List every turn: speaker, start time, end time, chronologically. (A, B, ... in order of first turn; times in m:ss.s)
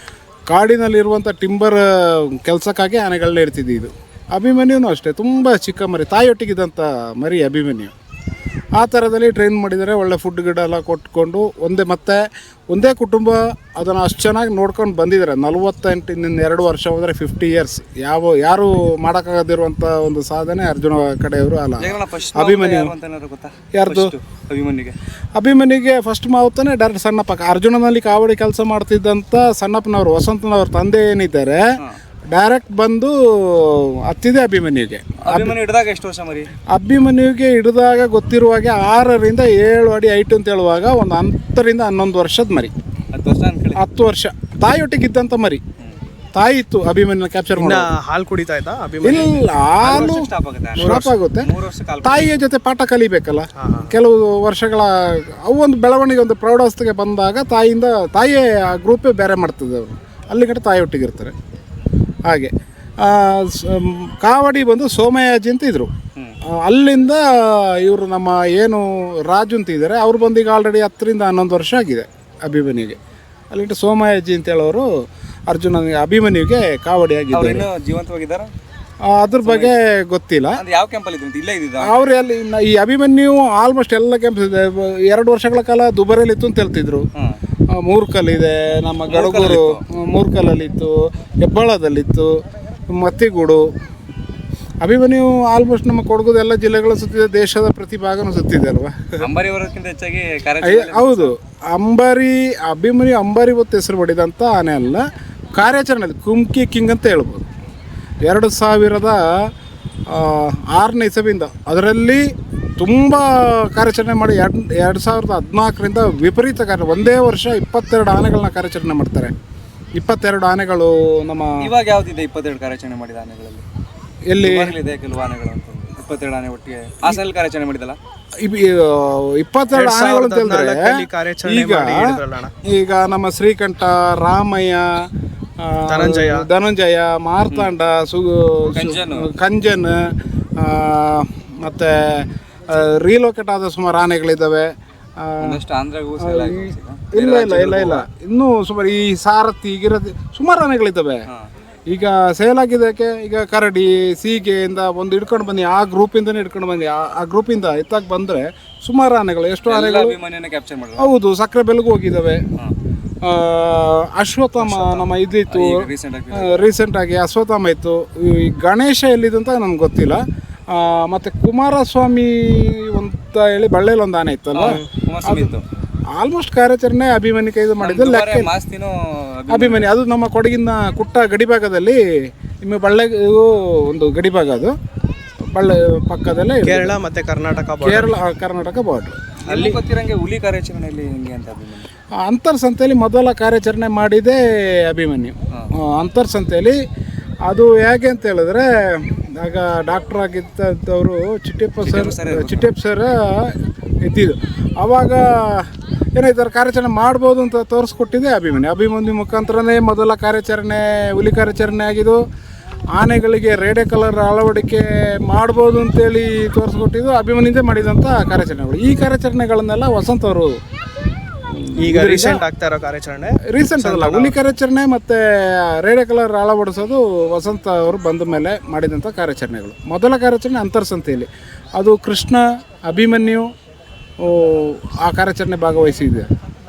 0:00.5-0:07.9 A
0:08.8-0:22.9 A
0:21.8-0:24.9 B
0:23.7-0:24.1 A
0:25.4-0:31.6 A
0:32.3-0:35.6 A
0:35.2-0:36.5 B
0:36.7-0:42.7 A
0:43.1-0:43.8 B
0:43.8-0:45.6 A
0:46.4-0:47.9 A
0:47.6-0:49.4 C
0:49.0-0:51.5 A
0:49.8-0:52.3 B
0:50.8-0:51.1 C
0:52.0-1:01.3 A
0:53.6-0:53.9 C
1:02.3-1:05.9 A
1:06.6-1:13.0 A
1:13.5-1:14.8 A
1:15.5-1:17.6 A
1:17.3-1:18.5 B
1:19.0-1:20.6 A
1:19.4-1:19.8 B
1:20.6-1:21.9 B
1:21.8-1:27.0 A
1:27.8-1:32.3 A
1:29.1-1:29.8 B
1:32.9-1:33.6 A
1:34.8-1:39.2 A
1:39.2-1:41.3 B
1:40.6-1:45.0 A
1:45.5-1:47.4 A
1:48.2-1:49.2 A
1:50.1-1:52.2 A
1:52.8-1:59.3 A
1:59.9-2:01.7 A
2:01.6-2:03.6 B
2:04.3-2:04.7 A
2:04.4-2:08.0 B
2:08.4-2:10.9 A
2:09.7-2:12.5 C
2:11.4-2:15.1 A
2:15.6-2:20.0 A
2:15.9-2:16.5 C
2:18.7-2:19.3 B
2:20.6-2:25.6 A
2:25.4-2:28.0 B
2:26.2-2:31.2 A
2:31.9-2:40.2 A
2:39.7-2:41.1 B
2:41.0-2:42.4 A
2:43.2-2:50.2 A
2:44.6-2:45.1 C
2:45.5-2:46.7 B
2:50.7-2:55.5 A
2:54.5-2:55.6 B
2:54.6-2:54.9 C
2:56.1-2:58.5 A
2:57.8-2:59.9 B
2:59.5-3:02.0 A
3:02.6-3:04.7 A
3:05.5-3:07.0 A
3:06.6-3:08.1 C
3:07.8-3:09.2 A
3:09.5-3:09.8 C
3:09.5-3:11.9 B
3:12.2-3:16.8 A
3:17.4-3:32.2 A
3:21.8-3:22.7 B
3:33.0-3:40.5 A
3:41.5-3:42.4 A
3:41.8-3:44.4 C
3:43.5-3:53.5 A
3:54.2-3:56.3 A